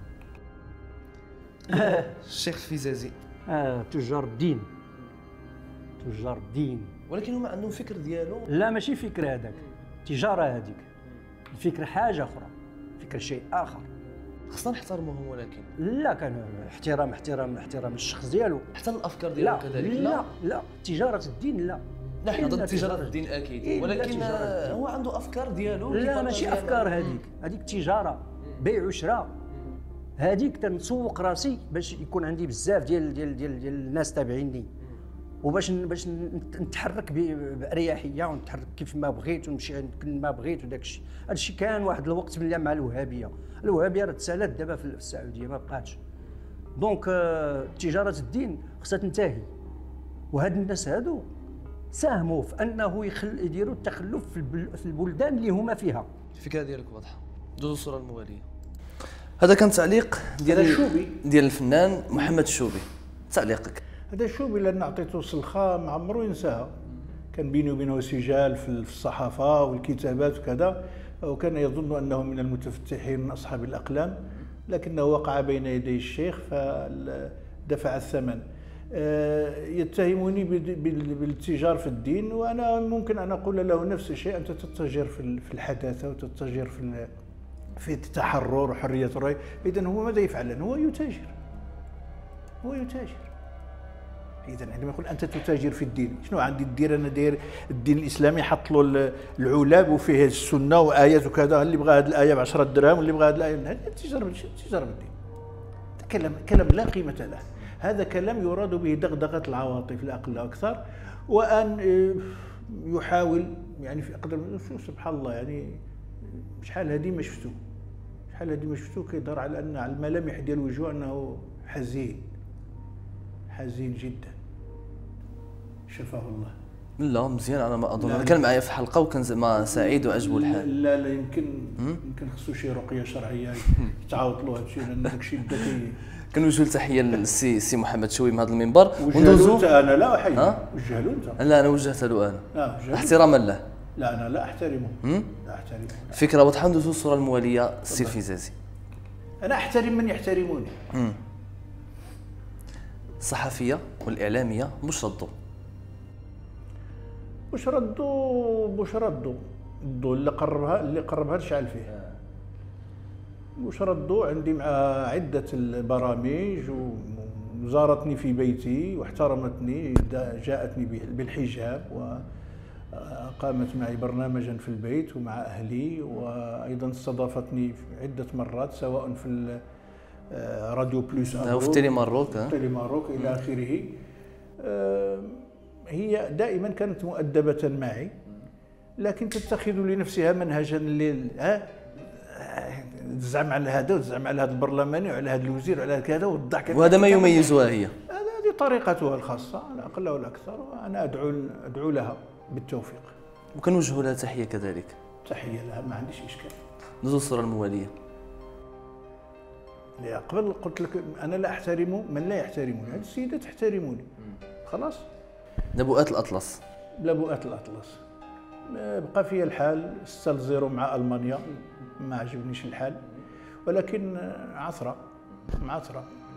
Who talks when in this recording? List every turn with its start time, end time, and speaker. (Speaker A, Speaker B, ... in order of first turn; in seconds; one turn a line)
Speaker A: 1.7-3.1
Speaker B: 1.7-2.1
Speaker B: 3.5-4.7
Speaker B: 6.0-7.0
Speaker A: 7.1-8.5
Speaker B: 8.5-10.9
Speaker B: 11.5-13.9
Speaker A: 14.5-15.7
Speaker B: 15.8-18.7
Speaker A: 18.7-20.2
Speaker B: 19.4-24.8
Speaker A: 22.2-27.2
Speaker B: 25.9-29.3
Speaker B: 30.2-34.7
Speaker B: 35.4-46.0
Speaker B: 46.8-49.5
Speaker B: 50.3-51.3
Speaker B: 51.9-56.1
Speaker A: 56.4-58.5
Speaker A: 59.4-63.8
Speaker C: 60.5-61.2
Speaker C: 64.1-66.7
Speaker C: 67.3-87.1
Speaker C: 87.8-91.3
Speaker C: 92.6-93.3
Speaker C: 94.5-105.1
Speaker C: 106.0-117.6
Speaker C: 118.3-122.3
Speaker C: 123.5-124.4
Speaker C: 125.9-126.5
Speaker A: 127.0-130.7
Speaker C: 128.0-128.4
Speaker C: 129.7-136.0
Speaker A: 136.3-139.7
Speaker C: 139.0-141.4
Speaker A: 140.3-140.6
Speaker A: 141.4-143.6
Speaker C: 142.5-143.2
Speaker C: 144.0-146.2
Speaker A: 145.0-145.3
Speaker A: 146.1-148.5
Speaker C: 149.4-150.8
Speaker A: 153.2-155.3
Speaker C: 157.5-161.9
Speaker C: 163.6-172.3
Speaker C: 172.9-179.6
Speaker C: 180.3-184.0
Speaker A: 181.4-182.6
Speaker C: 184.6-188.2
Speaker C: 189.0-203.1
Speaker A: 196.7-197.9
Speaker A: 203.6-205.0
Speaker C: 205.2-206.6
Speaker A: 207.0-207.9
Speaker C: 210.0-214.1
Speaker C: 214.6-215.1
Speaker A: 215.8-216.6
Speaker C: 217.0-218.0
Speaker C: 218.7-223.0
Speaker C: 223.7-226.1